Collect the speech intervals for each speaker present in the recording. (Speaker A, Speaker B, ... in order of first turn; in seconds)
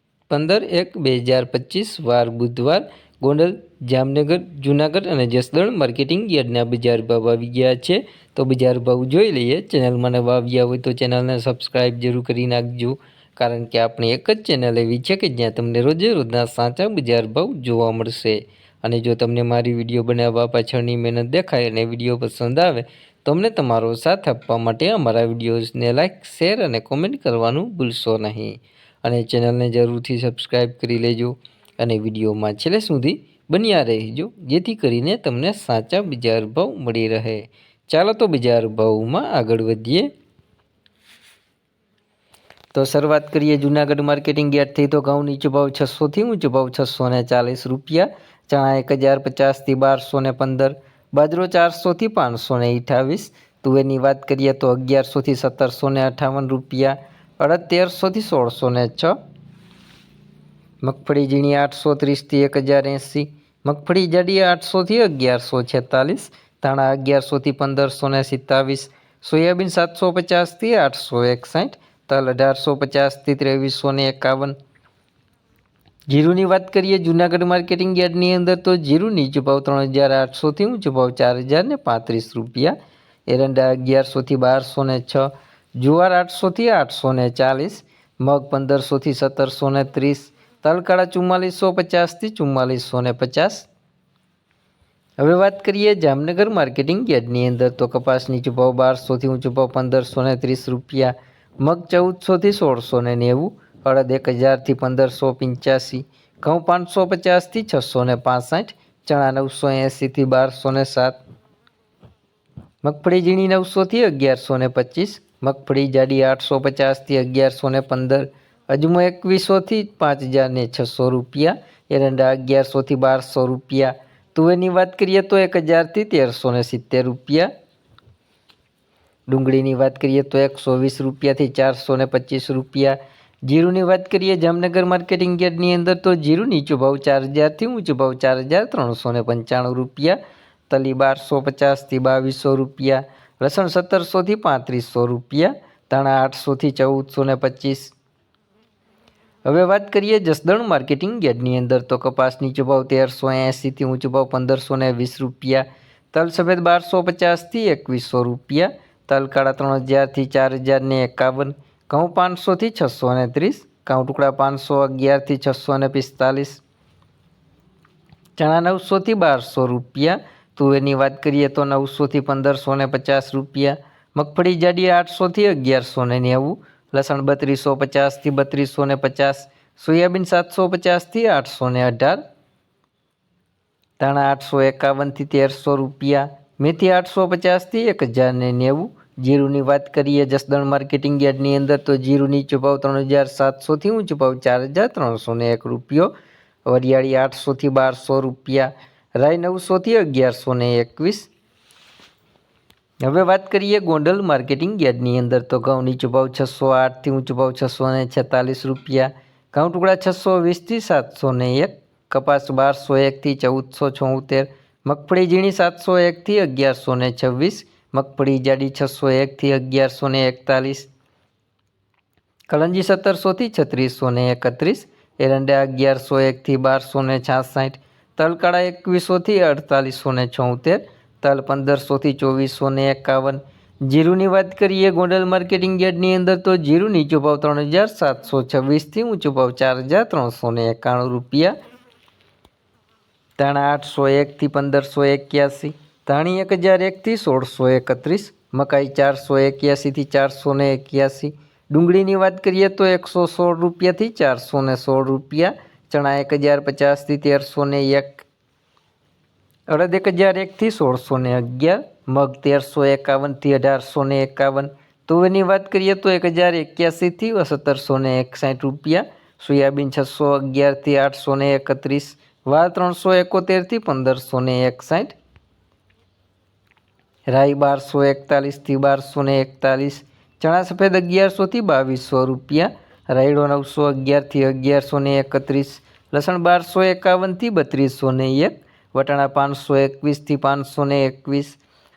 Speaker A: 0.3-40.1, 42.7-59.2, 60.8-74.5, 76.1-82.8, 83.3-93.7, 95.2-111.2, 112.8-127.5, 129.3-140.2, 140.7-147.9, 149.4-166.6, 168.4-182.2, 184.0-196.1, 196.7-201.3, 203.0-220.9, 222.5-241.5, 243.4-258.2, 259.7-275.1, 277.3-291.6